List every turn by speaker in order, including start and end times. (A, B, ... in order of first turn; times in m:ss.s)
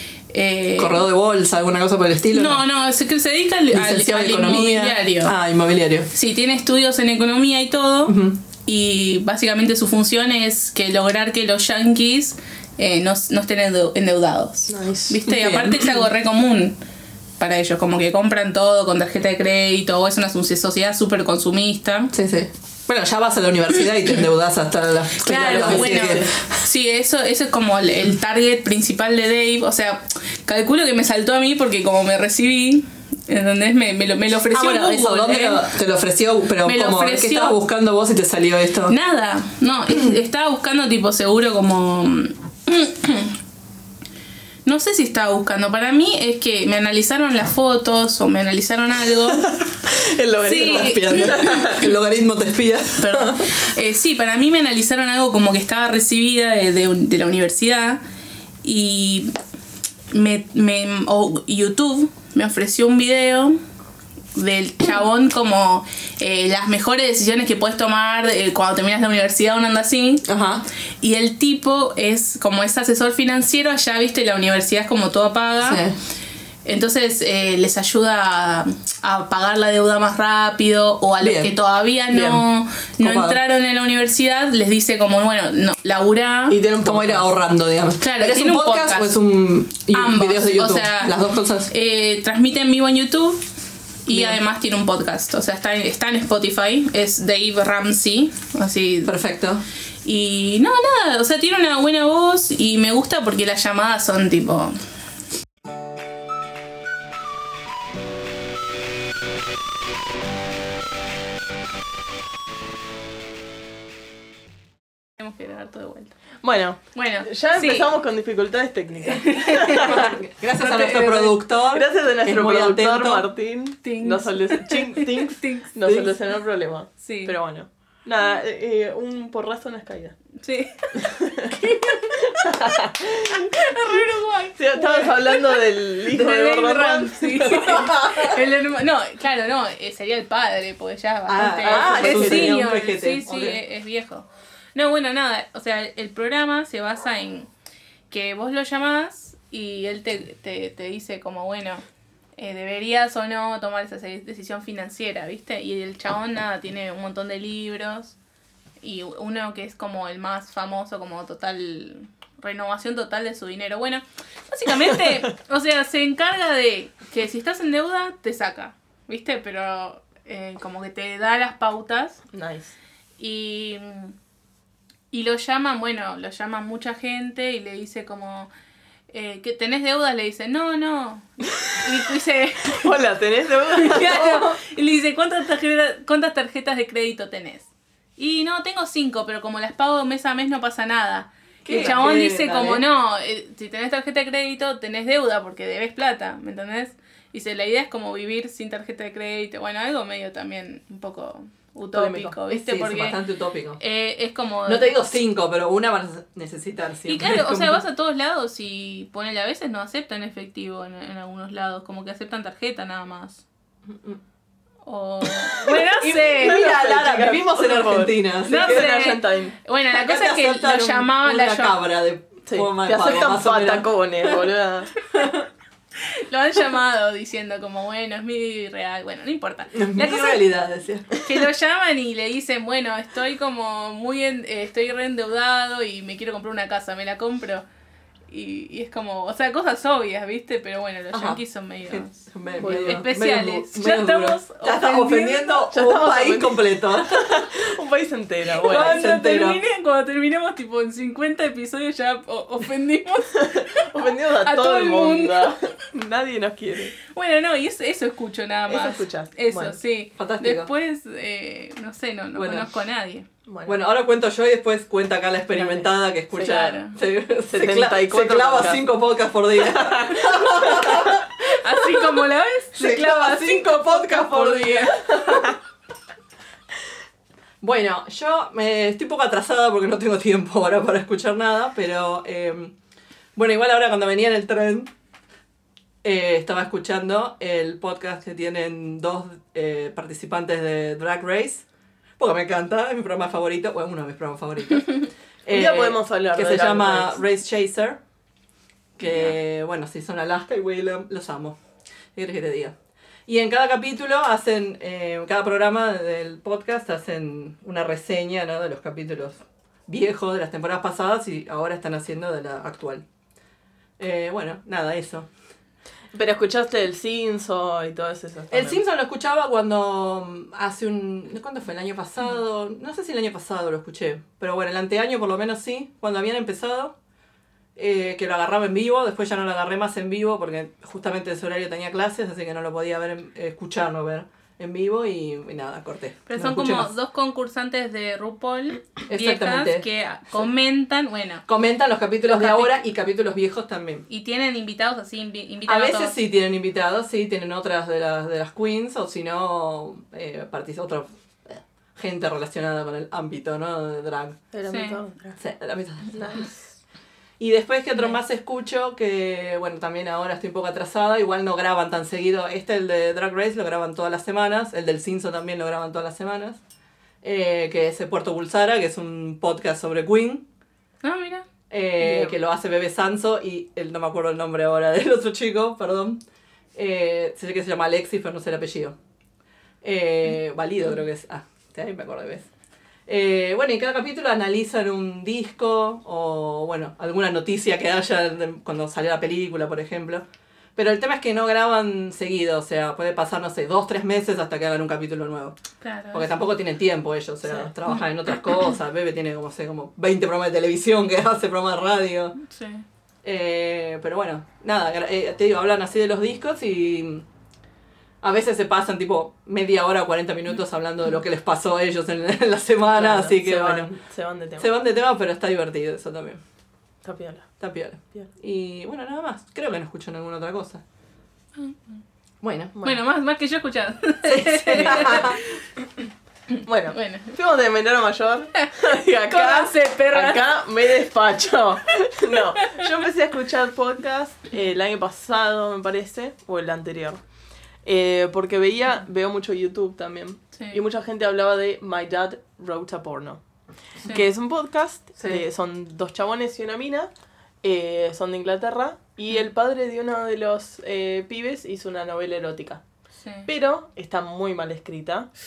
0:00.3-0:01.1 A
0:00.8-0:02.6 B
0:02.3-0:05.4 A
0:03.7-0:06.1 B
0:06.1-0:16.8 A
0:08.1-0:08.4 B
0:14.7-0:15.2 C
0:15.3-0:16.1 B
0:17.4-0:22.1 A
0:22.1-0:26.3 B
0:25.2-0:35.6 A
0:25.2-0:26.3 C
0:34.5-0:39.0 B
0:36.6-0:37.6 A
0:38.9-0:43.4 A
0:44.6-0:49.6 A
0:49.3-0:51.9 C
0:50.4-0:51.3 A
0:50.6-0:53.5 B
0:53.0-0:58.0 A
0:58.6-0:59.3 A
1:00.1-1:03.6 A
1:04.4-1:10.3 A
1:10.3-1:10.6 B
1:11.0-1:15.8 A
1:15.6-1:16.0 B
1:16.6-1:26.6 A
1:21.2-1:21.5 B
1:22.1-1:22.4 C
1:23.0-1:23.4 B
1:26.5-1:27.3 C
1:26.8-1:31.7 B
1:28.0-1:29.2 A
1:29.9-1:31.2 A
1:31.7-1:33.4 A
1:34.1-1:39.1 A
1:34.1-1:34.4 B
1:39.1-1:39.6 B
1:40.0-1:44.8 A
1:55.2-1:56.2 A
1:56.4-2:00.1 C
1:57.0-1:57.9 A
1:59.0-2:01.4 A
1:59.7-2:03.3 B
2:01.7-2:10.2 C
2:03.8-2:05.8 A
2:05.8-2:06.2 B
2:07.0-2:07.4 A
2:10.4-2:27.5 A
2:11.0-2:13.5 C
2:14.6-2:17.9 C
2:17.6-2:18.4 B
2:21.3-2:23.6 B
2:21.6-2:22.6 C
2:28.1-2:31.8 A
2:32.4-2:38.2 A
2:38.8-2:52.2 A
2:52.3-2:52.7 C
2:53.2-2:54.2 A
2:55.1-2:58.5 A
2:59.1-3:02.9 A
3:02.7-3:04.4 C
3:03.7-3:23.2 A
3:04.0-3:04.5 B
3:11.6-3:12.8 B
3:21.9-3:22.4 C
3:22.5-3:23.8 B
3:23.8-3:24.9 A
3:24.7-3:27.8 B
3:27.1-3:33.4 A
3:33.9-3:34.2 B
3:34.9-3:36.6 A
3:35.7-3:39.1 B
3:36.2-3:39.6 C
3:38.4-3:41.8 A
3:39.9-3:44.4 B
3:42.5-3:44.9 C
3:46.1-3:50.4 A
3:49.8-3:51.2 B
3:51.2-3:57.6 A
3:58.3-4:05.7 A
4:01.1-4:07.5 B
4:02.6-4:03.0 C
4:05.7-4:09.1 C
4:08.6-4:09.6 B
4:08.6-4:13.9 A
4:13.4-4:17.0 C
4:14.4-4:15.6 A
4:17.1-4:23.3 A
4:18.7-4:19.8 C
4:20.2-4:20.7 B
4:22.4-4:22.7 B
4:23.5-4:23.8 C
4:23.7-4:31.3 B
4:25.5-4:26.8 C
4:26.4-4:27.0 A
4:27.5-4:28.8 C
4:29.6-4:31.2 C
4:31.4-4:35.4 A
4:32.8-4:35.6 B
4:37.6-4:42.7 B
4:43.4-4:44.9 B
4:46.0-4:51.6 B
4:52.2-4:58.0 B
4:55.5-4:57.2 C
4:59.0-5:01.6 B
4:59.0-4:59.3 A
5:02.2-5:02.7 B
5:03.3-5:13.0 B
5:14.0-5:15.3 B
5:16.1-5:18.8 C
5:18.5-5:27.0 B
5:27.8-5:36.9 B
5:36.3-5:41.4 A
5:39.1-5:39.8 B
5:41.5-5:44.1 B
5:42.3-5:42.8 A
5:44.1-5:46.2 A
5:45.7-5:54.4 B
5:54.5-5:55.4 C
5:54.7-5:55.0 A
5:55.4-5:56.5 B
5:56.1-5:56.6 C
5:57.4-6:06.6 B
6:07.2-6:10.4 B
6:11.0-6:11.5 A
6:11.7-6:16.2 B
6:12.0-6:12.4 C
6:16.8-6:19.0 B
6:19.8-6:22.4 B
6:23.1-6:30.2 B
6:30.8-6:35.6 B
6:35.8-6:36.3 A
6:36.1-6:42.4 B
6:37.5-6:37.7 C
6:42.4-6:42.8 A
6:43.2-6:47.2 B
6:48.2-6:53.9 B
6:53.0-6:54.7 C
6:54.6-6:56.4 B
6:57.0-6:57.5 C
6:57.6-7:00.8 B
7:02.4-7:02.8 B
7:02.8-7:03.0 C
7:02.8-7:05.4 A
7:04.2-7:05.4 B
7:06.7-7:17.2 C
7:06.9-7:07.4 A
7:09.3-7:10.6 A
7:17.8-7:23.4 C
7:24.0-7:27.1 C
7:27.6-7:32.8 C
7:33.2-7:33.5 A
7:33.5-7:35.3 C